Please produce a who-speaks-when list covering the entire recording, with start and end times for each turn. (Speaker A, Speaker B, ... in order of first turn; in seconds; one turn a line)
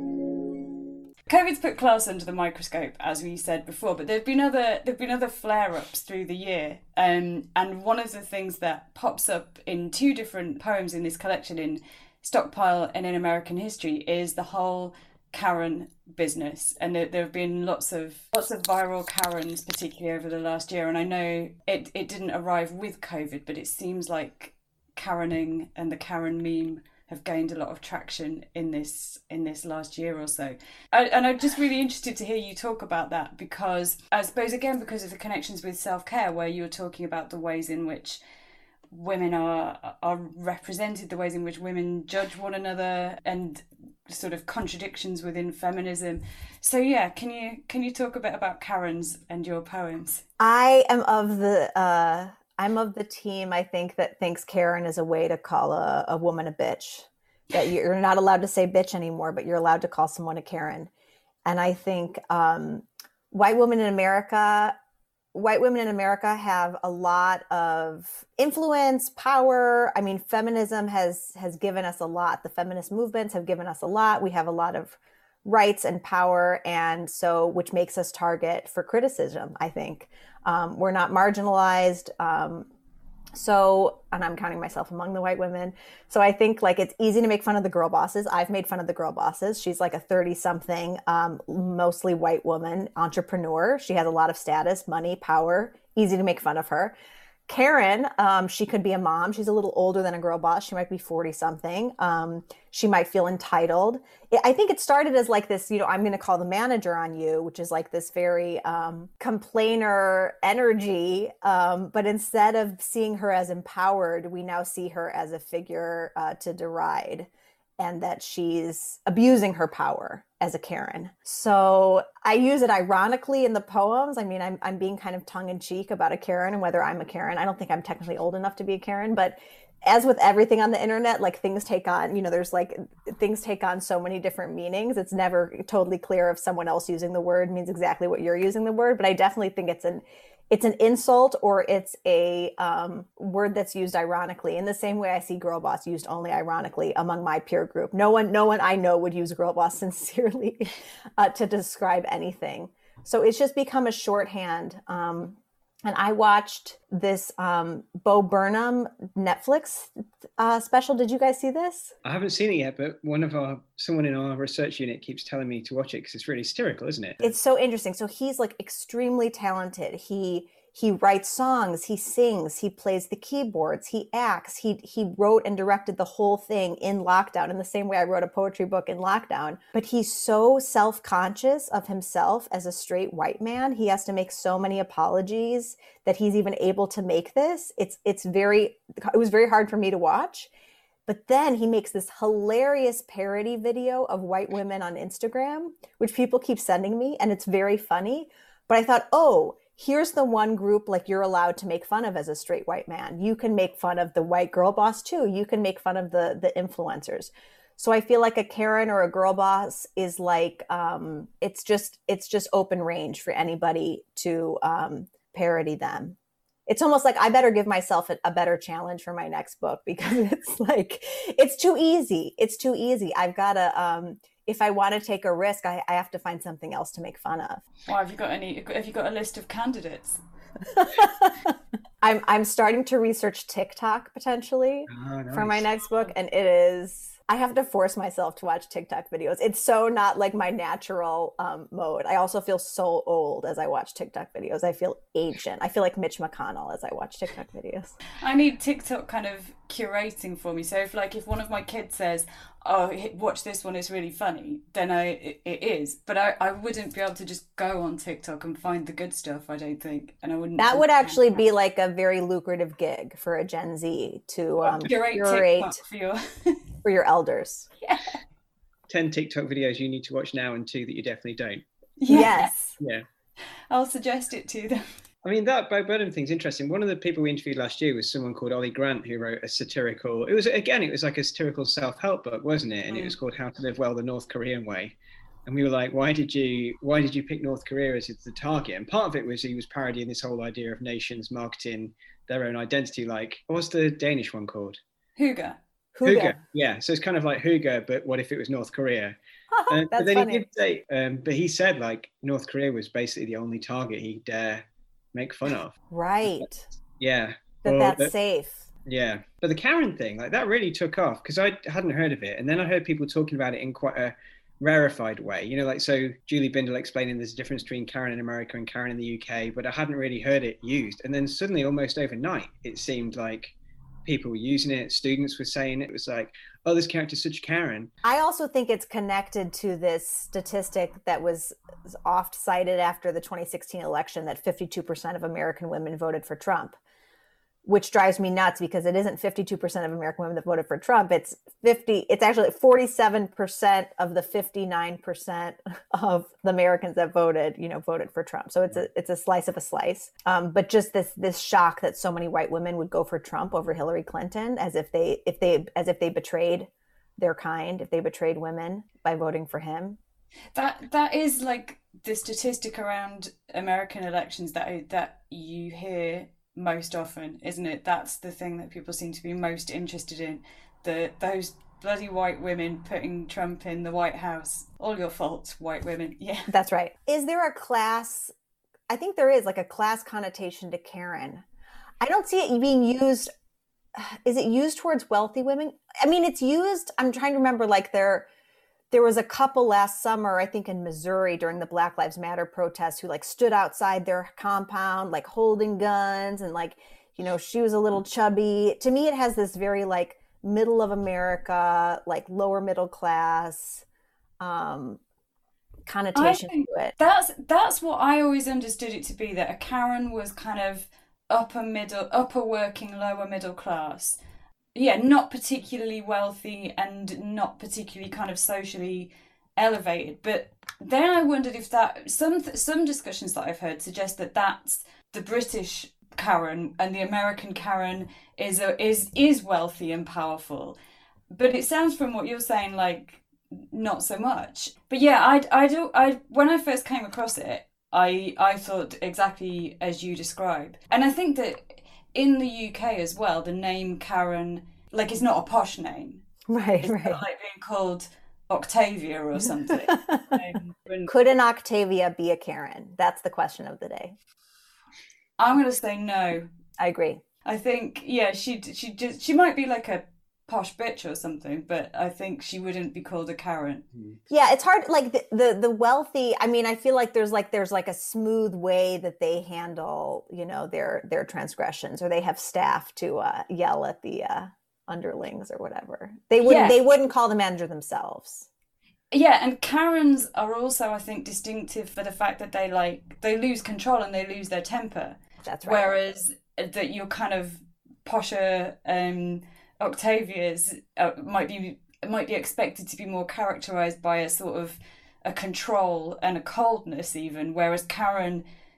Speaker A: 1.3-38.2
Speaker A: 38.9-50.2
Speaker B: 50.4-60.9
Speaker B: 61.4-64.8
Speaker B: 65.3-82.7
Speaker B: 83.3-96.9
Speaker B: 97.5-161.9
Speaker C: 162.0-167.3
Speaker B: 167.2-190.5
Speaker B: 191.1-227.6
Speaker A: 227.9-230.2
Speaker B: 230.7-248.0
Speaker C: 234.9-235.7
Speaker A: 248.2-261.4
Speaker B: 260.6-265.8
Speaker A: 264.7-266.6
Speaker B: 266.8-267.7
Speaker A: 267.8-268.2
Speaker C: 268.9-271.6
Speaker A: 272.0-272.5
Speaker B: 272.1-272.8
Speaker A: 273.7-274.8
Speaker C: 275.2-284.9
Speaker C: 285.5-294.8
Speaker A: 295.2-295.6
Speaker B: 295.9-296.4
Speaker C: 296.0-299.2
Speaker B: 299.5-300.4
Speaker C: 299.7-305.7
Speaker B: 305.9-306.7
Speaker C: 307.0-308.1
Speaker B: 307.6-308.7
Speaker C: 308.9-323.5
Speaker C: 324.1-327.9
Speaker B: 328.0-336.8
Speaker B: 337.6-360.0
Speaker A: 360.5-376.5
Speaker B: 376.5-378.3
Speaker B: 378.9-381.4
Speaker B: 382.0-383.3
Speaker B: 383.9-388.3
Speaker B: 388.9-403.8
Speaker B: 404.4-405.0
Speaker B: 405.9-406.9
Speaker A: 406.1-414.2
Speaker A: 414.7-430.8
Speaker A: 431.3-446.2
Speaker B: 446.5-447.2
Speaker A: 446.8-451.1
Speaker B: 449.9-450.3
Speaker B: 451.1-454.1
Speaker A: 455.4-456.5
Speaker B: 456.8-457.2
Speaker A: 457.4-463.8
Speaker B: 464.3-478.5
Speaker A: 476.4-476.8
Speaker A: 479.1-498.4
Speaker B: 485.4-485.9